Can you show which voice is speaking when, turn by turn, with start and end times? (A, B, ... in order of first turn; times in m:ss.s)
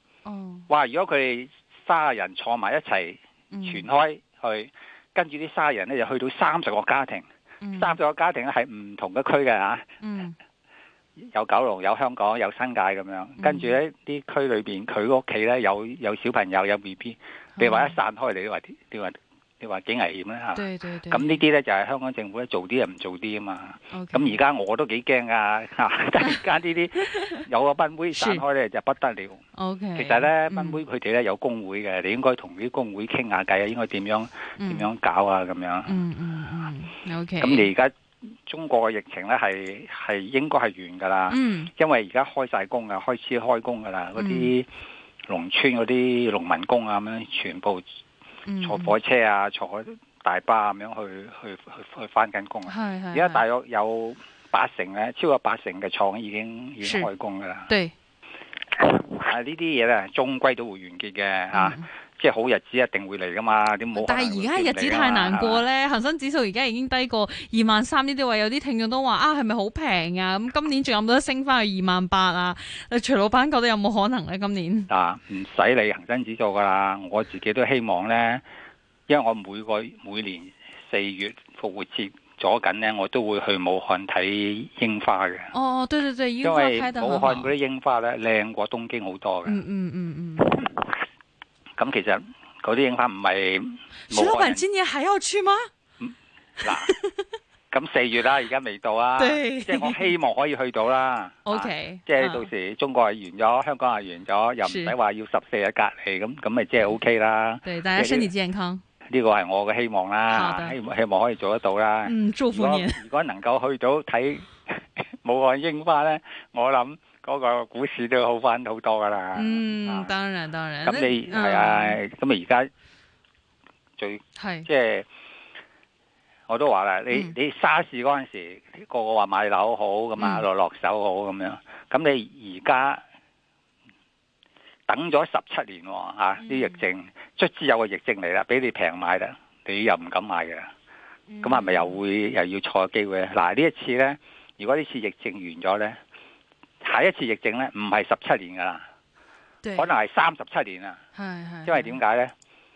0:00.2-0:00.7 A
0:00.7-0:07.2 B
0:03.5-0:03.8 A
0:07.6-0:08.0 A
0:07.8-0:09.9 B
0:10.0-0:10.4 A
0:11.3-0:29.4 B
0:13.4-0:13.7 A
0:17.6-0:17.9 A
0:20.6-0:21.4 A
0:23.9-0:24.4 A
0:28.1-0:28.4 A
0:29.6-0:30.8 A
0:30.0-0:36.0 B
0:34.6-0:34.9 A
0:35.9-0:37.7 A
0:37.4-0:37.9 B
0:38.4-0:44.7 B
0:41.3-0:41.7 A
0:44.2-0:44.5 A
0:45.3-0:47.8 B
0:48.4-0:48.9 A
0:48.6-0:57.7 B
0:52.7-0:53.4 A
0:56.8-0:57.1 A
0:57.7-0:57.9 A
0:58.8-1:05.6 B
1:01.5-1:01.9 A
1:03.9-1:14.9 A
1:14.9-1:18.4 B
1:19.1-1:25.5 B
1:25.5-1:27.5 A
1:26.4-1:29.6 B
1:29.4-1:30.6 A
1:31.8-1:34.6 B
1:34.1-1:35.7 A
1:36.0-1:36.9 B
1:36.6-1:37.1 A
1:37.7-1:48.3 B
1:39.2-1:40.1 A
1:41.4-1:42.5 A
1:44.6-1:44.9 A
1:47.6-1:48.8 A
1:49.1-2:00.1 B
1:50.3-1:50.8 A
1:52.0-1:53.0 A
1:59.4-2:02.0 A
2:00.8-2:02.7 B
2:04.0-2:05.0 B
2:04.4-2:04.7 A
2:06.5-2:13.0 B
2:10.2-2:10.4 A
2:14.9-2:20.7 B
2:16.4-2:16.8 A
2:21.3-2:22.0 A
2:21.4-2:26.0 B
2:26.8-2:28.8 B
2:29.8-2:31.0 B
2:31.1-2:32.0 A
2:31.6-2:32.3 B